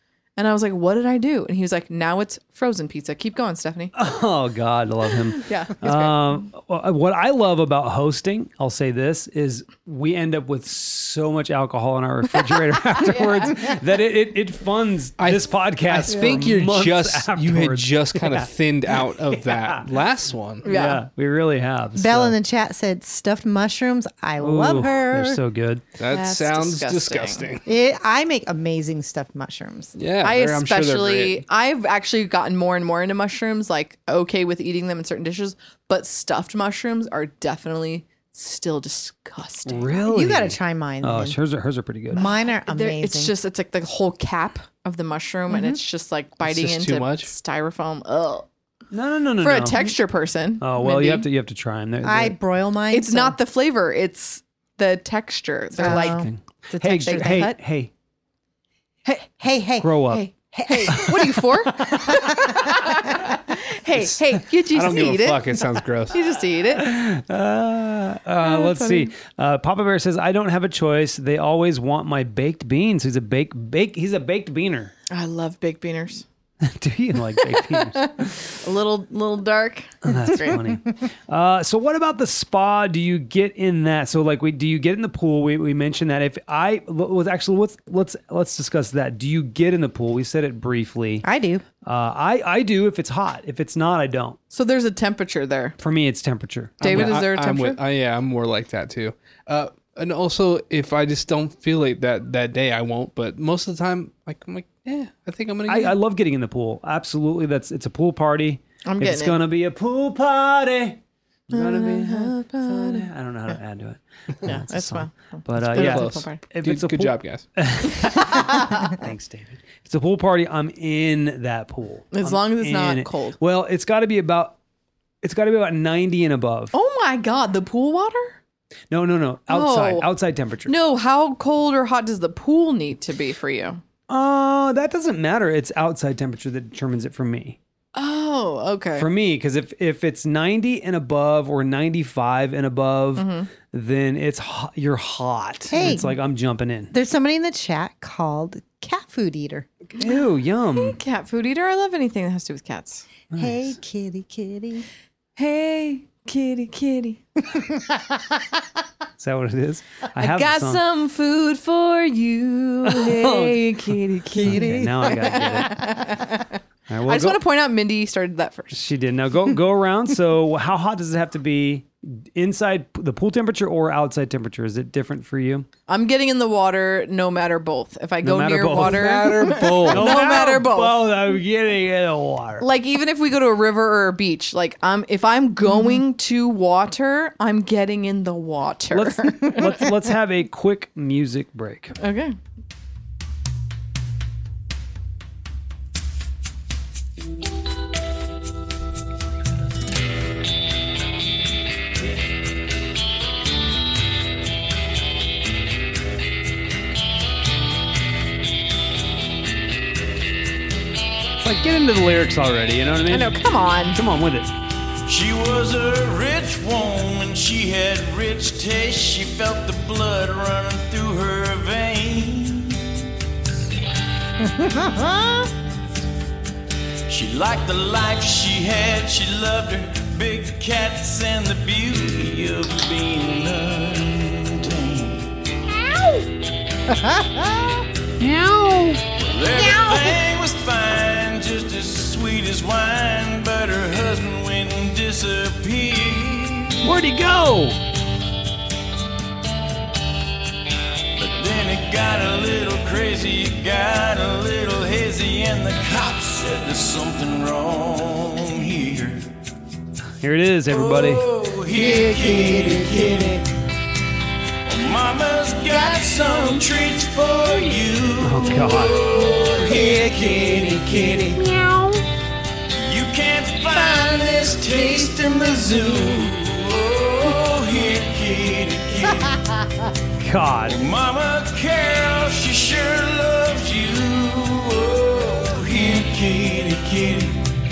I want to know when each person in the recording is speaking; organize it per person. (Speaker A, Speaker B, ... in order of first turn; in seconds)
Speaker A: 0.4-3.9, 5.4-6.2, 12.9-13.7, 20.6-21.0, 26.1-27.5, 30.2-39.9, 42.1-48.5, 49.4-51.3, 52.9-57.6, 60.1-65.5, 66.1-66.9, 68.4-69.1, 75.1-76.2, 77.4-80.6, 94.5-95.8, 96.8-97.8, 108.8-109.4, 111.5-113.1, 114.4-116.4, 118.1-118.9, 122.1-123.4, 126.7-128.4, 129.5-130.1, 130.7-133.8, 137.9-139.1, 143.2-143.5, 150.7-153.1, 155.4-157.2, 160.2-168.8, 175.9-181.0, 182.6-189.8, 192.0-192.4, 213.1-214.0
Speaker B: 3.9-18.5, 19.3-19.8, 20.6-22.4, 24.4-25.8, 39.6-42.2, 48.9-49.8, 50.6-52.4, 55.8-57.9, 59.8-60.3, 60.9-62.2, 66.8-74.9, 76.6-78.5, 80.0-91.2, 91.8-94.4, 95.8-97.2, 105.7-124.6, 125.2-126.7, 128.9-130.7, 134.1-137.6, 139.0-146.9, 149.9-151.0, 153.3-153.8, 159.2-160.8, 162.8-166.0, 166.9-167.4, 168.7-175.7, 178.2-182.7, 188.9-192.0, 211.4-213.4, 213.9-214.5, 238.2-239.0, 246.8-247.8, 260.2-261.2, 268.2-269.0, 280.2-280.8
Speaker C: 15.2-20.6, 26.0-27.7, 29.9-31.4, 46.4-47.3, 63.9-66.1, 96.8-105.9, 115.7-117.5, 178.7-180.2
Speaker D: 21.9-25.4, 27.6-29.9, 40.1-41.4, 42.1-43.3, 45.5-45.8, 52.0-53.4, 55.8-57.5, 59.4-61.4, 62.1-62.7, 91.2-91.6, 145.7-146.2, 146.9-149.7, 153.4-154.9, 164.3-165.5, 224.4-225.5, 236.9-237.8, 239.6-240.2, 261.7-263.4
Speaker E: 215.1-223.0, 227.1-235.3, 239.1-246.9, 251.2-259.3, 260.7-263.5, 264.6-271.9, 272.8-279.4, 280.6-287.4